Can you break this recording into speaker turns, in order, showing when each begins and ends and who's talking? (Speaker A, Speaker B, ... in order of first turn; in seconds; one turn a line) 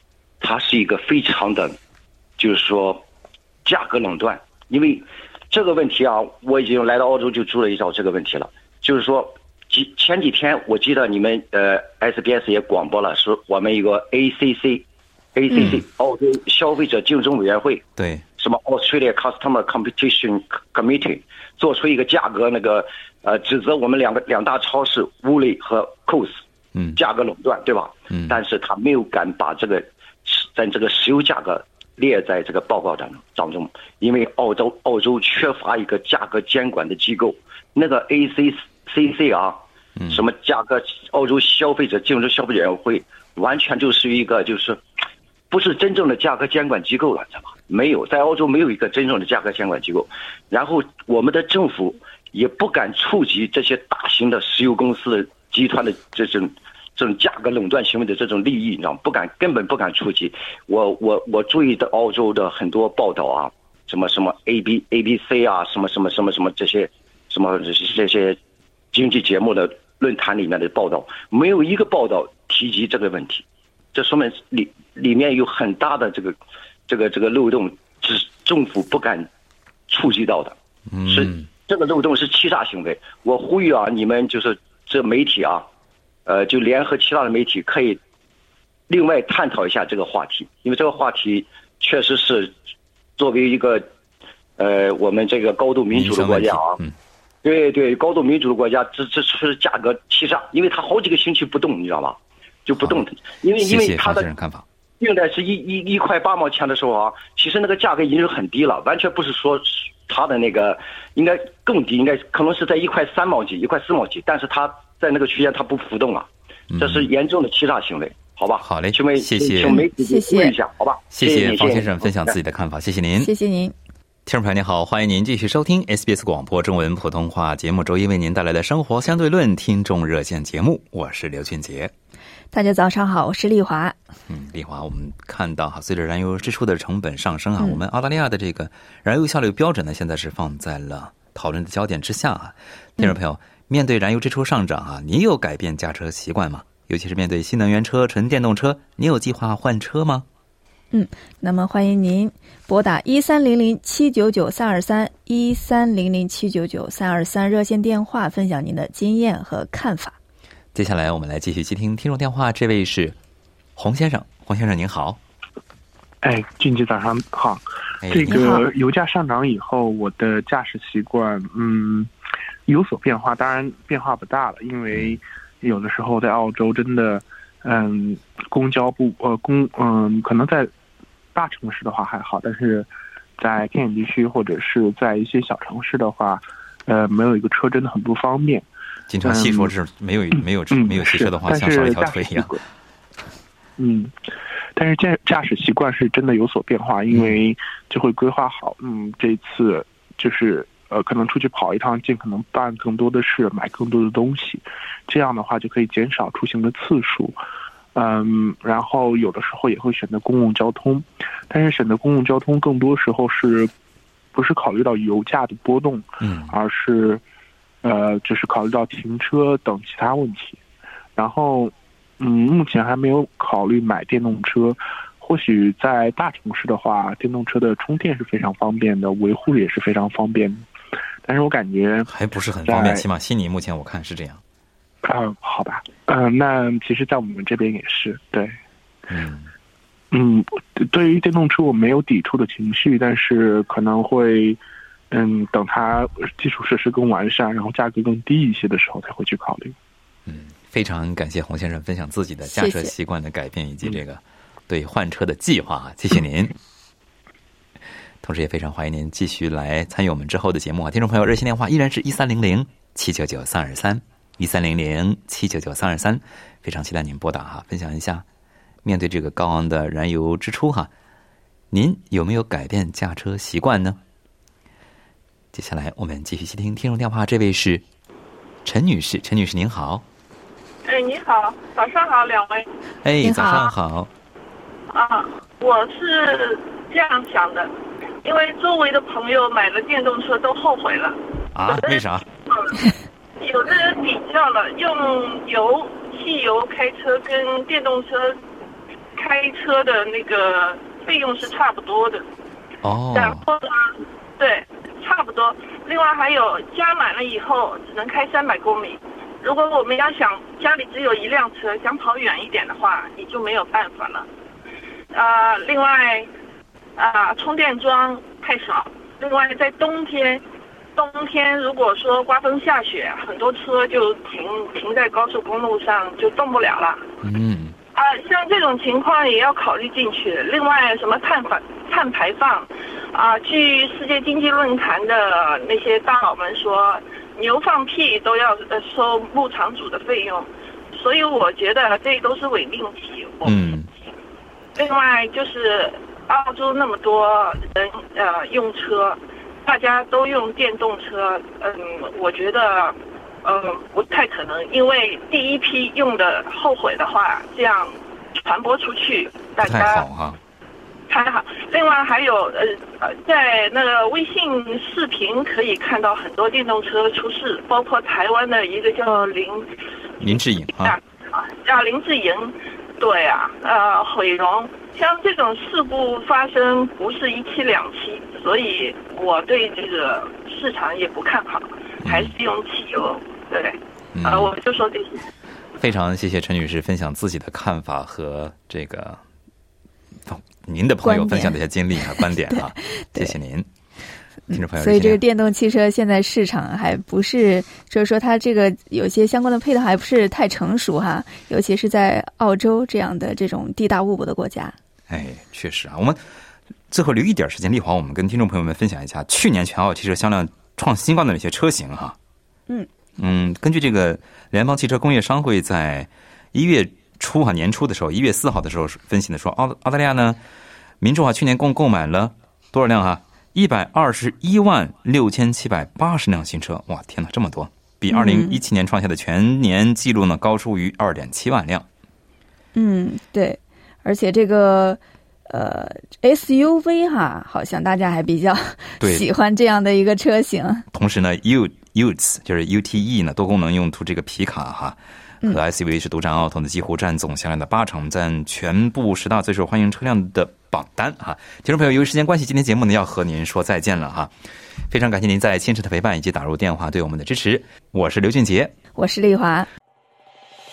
Speaker A: 0.4-1.8
Speaker A: 2.4-3.0
Speaker A: 3.6-17.8
Speaker B: 15.5-15.8
Speaker B: 18.0-18.2
Speaker A: 18.4-26.4
Speaker B: 26.7-27.0
Speaker A: 26.9-44.8
Speaker B: 28.1-28.4
Speaker B: 40.0-40.2
Speaker A: 45.5-68.4
Speaker A: 68.9-76.3
Speaker A: 76.9-79.3
Speaker A: 79.9-85.7
Speaker B: 80.9-81.5
Speaker A: 86.2-88.0
Speaker A: 88.9-92.5
Speaker A: 93.2-93.8
Speaker A: 94.6-96.8
Speaker B: 95.9-97.0
Speaker A: 97.4-104.2
Speaker B: 102.8-103.0
Speaker B: 103.6-104.6
Speaker A: 105.0-122.3
Speaker B: 116.7-117.1
Speaker B: 118.6-119.8
Speaker C: 119.6-120.5
Speaker B: 121.1-123.3
Speaker C: 123.2-123.7
Speaker B: 124.2-131.9
Speaker C: 132.5-134.0
Speaker B: 134.3-150.2
Speaker C: 150.9-160.2
Speaker B: 160.7-163.2
Speaker B: 163.8-165.2
Speaker D: 166.2-172.1
Speaker B: 168.0-168.5
Speaker C: 168.3-168.6
Speaker D: 172.7-180.7
Speaker B: 174.9-175.2
Speaker D: 181.3-188.7
Speaker B: 189.1-192.5
Speaker D: 189.2-189.7
Speaker D: 190.7-192.6
Speaker D: 193.8-194.1
Speaker D: 194.8-207.3
Speaker D: 207.9-213.7
Speaker D: 214.3-217.2
Speaker B: 216.2-216.5
Speaker D: 217.8-220.6
Speaker D: 221.2-230.7
Speaker D: 231.2-232.1
Speaker B: 232.1-234.4
Speaker D: 232.7-233.0
Speaker D: 235.0-238.5
Speaker B: 239.1-239.5
Speaker D: 240.1-249.8
Speaker B: 250.2-256.5
Speaker C: 252.5-252.9
Speaker B: 258.2-268.2
Speaker B: 268.8-270.9
Speaker B: 271.7-274.0
Speaker B: 275.5-277.8
Speaker B: 278.6-280.0
Speaker E: 280.8-282.7
Speaker B: 283.0-284.1
Speaker C: 283.2-283.7
Speaker E: 284.9-287.7
Speaker E: 288.2-291.2
Speaker B: 291.5-292.2
Speaker E: 291.7-292.8
Speaker E: 293.4-298.4
Speaker E: 299.1-302.2
Speaker B: 302.8-303.4
Speaker E: 303.1-314.3
Speaker E: 315.1-316.3
Speaker E: 317.0-320.4
Speaker E: 320.9-327.0
Speaker B: 327.2-327.8
Speaker E: 327.9-343.6
Speaker B: 343.4-343.9
Speaker E: 344.7-360.1
Speaker B: 359.6-360.4
Speaker E: 361.1-369.7
Speaker B: 370.2-371.0
Speaker E: 370.8-385.2
Speaker B: 382.0-382.4
Speaker B: 384.1-384.5
Speaker B: 385.8-389.2
Speaker B: 390.2-393.7
Speaker C: 391.0-391.6
Speaker C: 392.2-393.3
Speaker C: 394.5-404.7
Speaker B: 394.5-395.2
Speaker B: 405.1-406.2
Speaker B: 406.9-412.2
Speaker B: 413.2-420.4
Speaker B: 421.0-431.9
Speaker C: 428.1-428.6
Speaker C: 432.7-440.9
Speaker B: 439.0-439.2
Speaker B: 440.9-454.3
Speaker B: 454.9-458.7
Speaker C: 458.9-459.7